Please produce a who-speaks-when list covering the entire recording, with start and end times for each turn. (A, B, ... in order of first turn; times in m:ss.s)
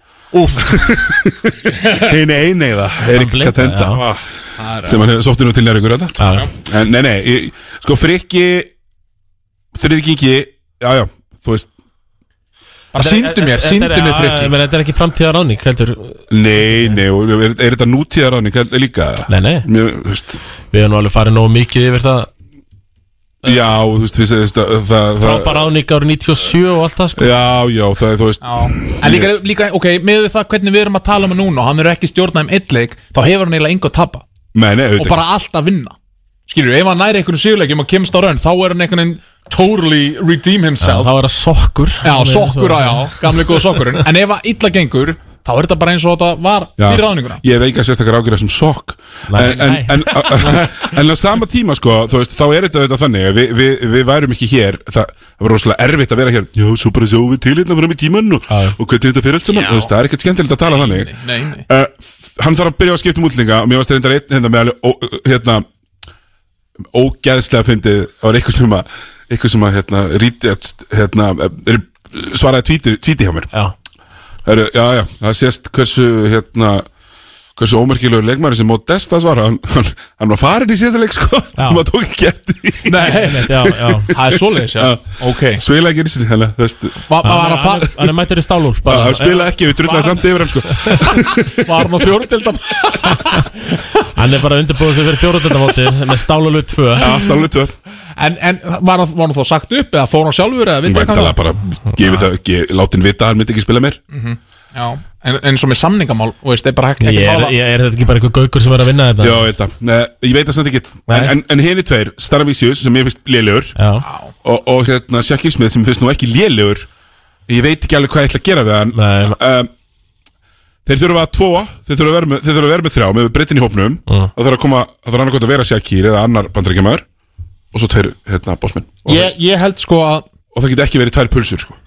0:00.3-0:00.8 A
0:00.6-0:04.0 B
0:03.1-0:04.0 C
0:04.0-0:05.1 A
0:04.8-0:08.7 B
0:06.2-0:06.5 C
0:09.7-0:11.7 B
0:12.9-0:14.5 A
0:12.9-0:17.0 C
0:16.3-0:20.4 B
0:19.3-0:19.7 C
0:20.7-0:22.3 C
0:23.4-0:25.7 B
0:25.2-0:27.3 C
0:27.2-0:29.3 B
0:28.4-0:34.2 A
0:34.5-0:35.2 B
0:35.0-0:35.9 A
0:36.5-0:41.1 A
0:40.8-0:44.0 C
0:42.0-0:47.4 A
0:46.8-1:01.1 B
0:49.3-0:50.5 C
0:50.4-0:50.9 A
0:58.5-0:58.8 C
0:59.5-0:59.9 A
1:00.6-1:01.6 A
1:01.7-1:05.6 B
1:06.9-1:13.5 B
1:14.4-1:16.9 B
1:17.6-1:23.7 B
1:21.6-1:21.8 C
1:22.9-1:23.4 A
1:23.0-1:24.1 C
1:24.1-1:25.6 A
1:24.7-1:27.0 B
1:27.1-1:27.9 A
1:27.2-1:29.7 C
1:28.9-1:31.6 B
1:29.8-1:30.1 A
1:31.6-1:34.0 A
1:34.1-1:37.1 C
1:37.0-1:37.7 B
1:38.2-1:41.4 A
1:40.8-1:44.0 B
1:44.1-1:47.5 A
1:47.0-1:49.5 C
1:49.2-1:53.8 B
1:51.1-1:51.3 C
1:53.8-1:54.0 C
1:54.0-1:54.3 A
1:54.4-1:56.9 B
1:57.5-1:59.7 B
1:58.9-1:59.4 C
2:00.8-2:07.0 B
2:07.7-2:09.3 B
2:09.0-2:10.2 A
2:10.5-2:11.8 B